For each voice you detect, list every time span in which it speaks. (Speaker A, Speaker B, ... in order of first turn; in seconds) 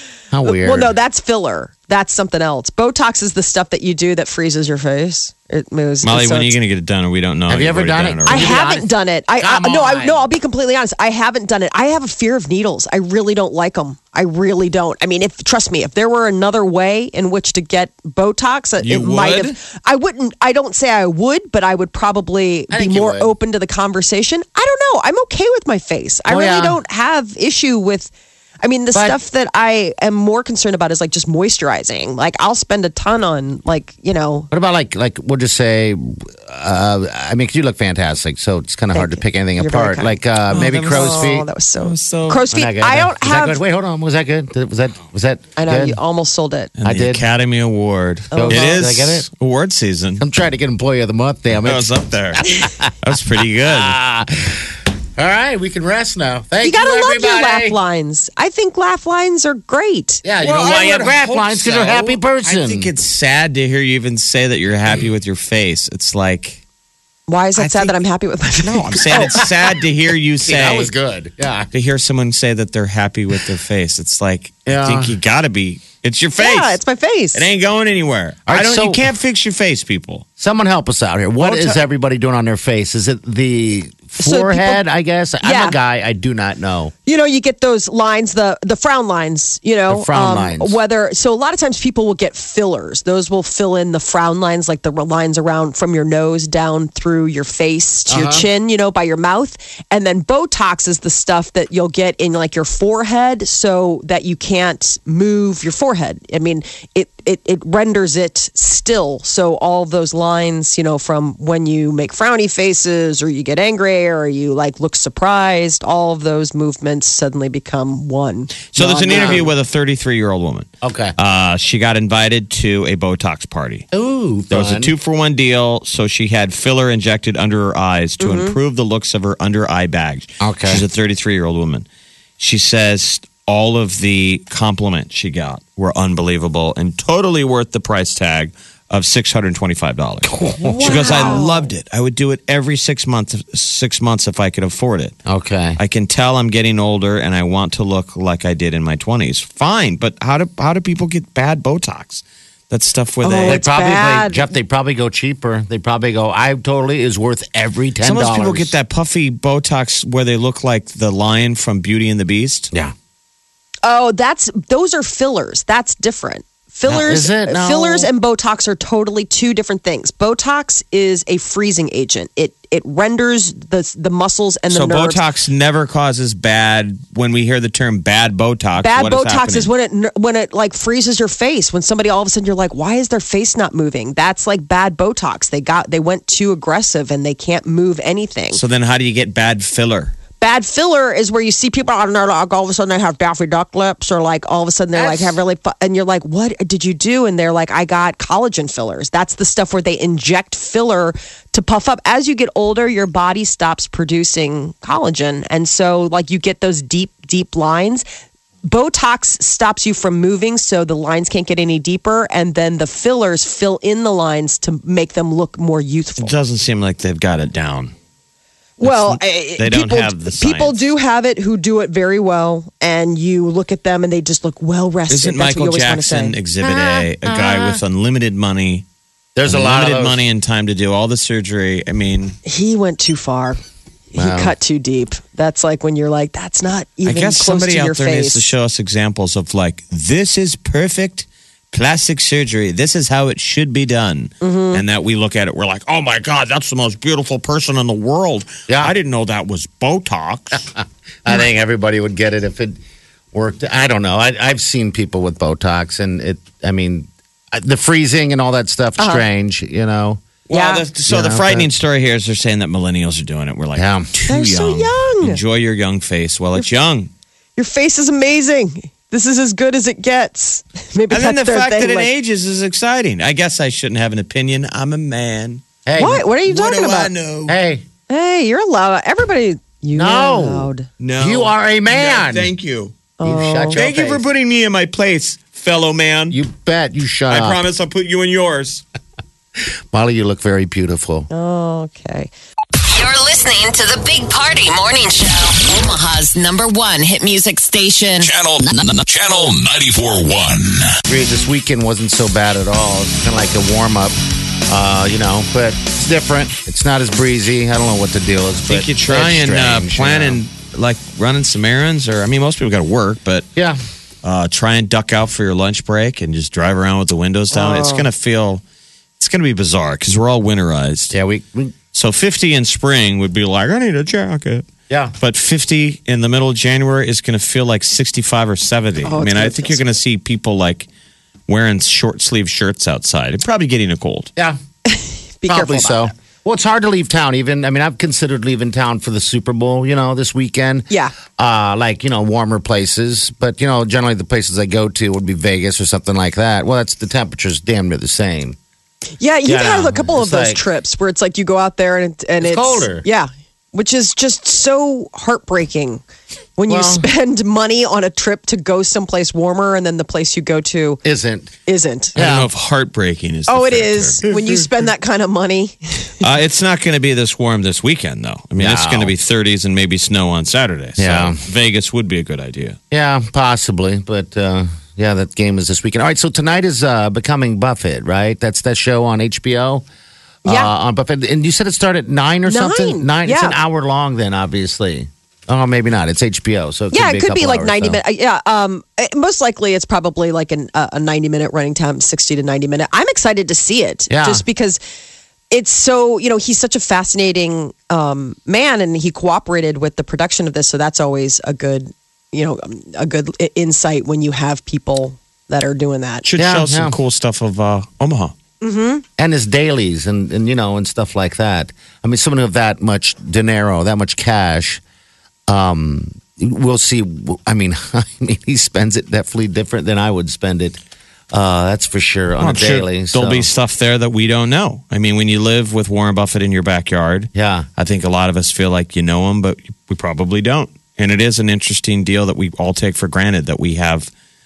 Speaker A: 0.3-0.9, 7.5-8.9, 9.4-10.3, 22.7-23.3, 26.3-26.8, 34.5-41.5, 42.5-46.0, 46.8-47.2, 48.4-49.3, 50.2-52.9, 53.6-57.8, 60.2-62.9, 69.0-69.6, 70.4-71.7, 74.7-75.2, 78.5-79.0, 80.4-86.9, 89.9-90.8, 98.1-98.5, 119.1-119.5, 120.8-121.2, 123.9-124.9, 130.4-130.8, 140.2-141.4, 145.3-145.8, 153.4-158.7, 166.9-168.1, 194.9-195.4, 229.3-230.2, 234.2-234.5, 248.7-248.9, 250.8-252.8, 253.3-260.2, 261.1-261.7, 263.8-264.1, 275.9-276.3, 277.5-277.9, 279.9-282.5, 283.2-284.2, 286.3-287.6, 289.6-291.3, 301.1-304.2, 304.7-310.4, 321.1-321.8, 335.5-348.6, 349.4-350.6, 352.4-353.1, 356.7-357.1, 361.0-361.5, 362.1-362.5, 368.6-369.1, 371.0-371.4, 372.9-379.9, 380.4-388.0, 394.1-394.4, 406.4-407.0, 409.2-414.8, 415.5-420.8, 421.3-423.5, 427.3-427.7
Speaker B: 0.4-6.5, 8.3-34.5, 38.9-43.6, 45.6-46.7, 48.3-48.9, 56.6-60.2, 67.3-69.4, 76.4-77.5, 81.4-81.8, 84.2-84.8, 85.4-85.8, 87.1-119.5, 128.2-128.6, 140.6-141.7, 153.2-154.5, 163.8-175.2, 178.8-188.6, 190.4-208.1, 208.7-216.3, 218.8-226.4, 232.4-233.6, 234.1-238.5, 244.4-244.8, 259.0-259.2, 260.5-260.9, 264.3-265.4, 267.6-272.1, 276.0-277.1, 278.1-280.9, 283.2-283.8, 291.3-292.3, 295.8-298.3, 317.5-318.1, 329.1-329.8, 334.9-336.1, 340.9-341.1, 349.2-356.0, 356.6-361.0, 361.7-362.1, 363.5-366.1, 380.5-380.7, 382.5-383.6, 386.9-394.8, 395.5-406.2, 408.6-409.0
Speaker C: 6.0-8.6, 18.8-19.6, 40.5-41.3, 41.8-42.4, 46.8-50.2, 51.6-54.0, 60.4-66.6, 67.6-68.0, 68.6-70.9, 71.7-76.8, 77.3-80.2, 118.7-123.9, 124.5-131.9, 132.4-145.2, 145.8-153.6, 158.0-162.7, 174.7-179.7, 188.5-190.1, 216.2-217.9, 218.8-220.9, 225.1-228.8, 229.5-232.4, 237.1-250.6, 260.5-267.1, 271.1-275.6, 276.4-277.6, 281.0-282.9, 283.8-286.4, 287.3-288.8, 308.7-313.5, 314.2-318.6, 319.2-321.2, 321.9-330.9, 331.5-334.3, 362.2-364.2, 366.2-372.8, 406.2-408.4, 422.4-434.1
Speaker D: 292.8-296.0
Speaker E: 298.2-300.9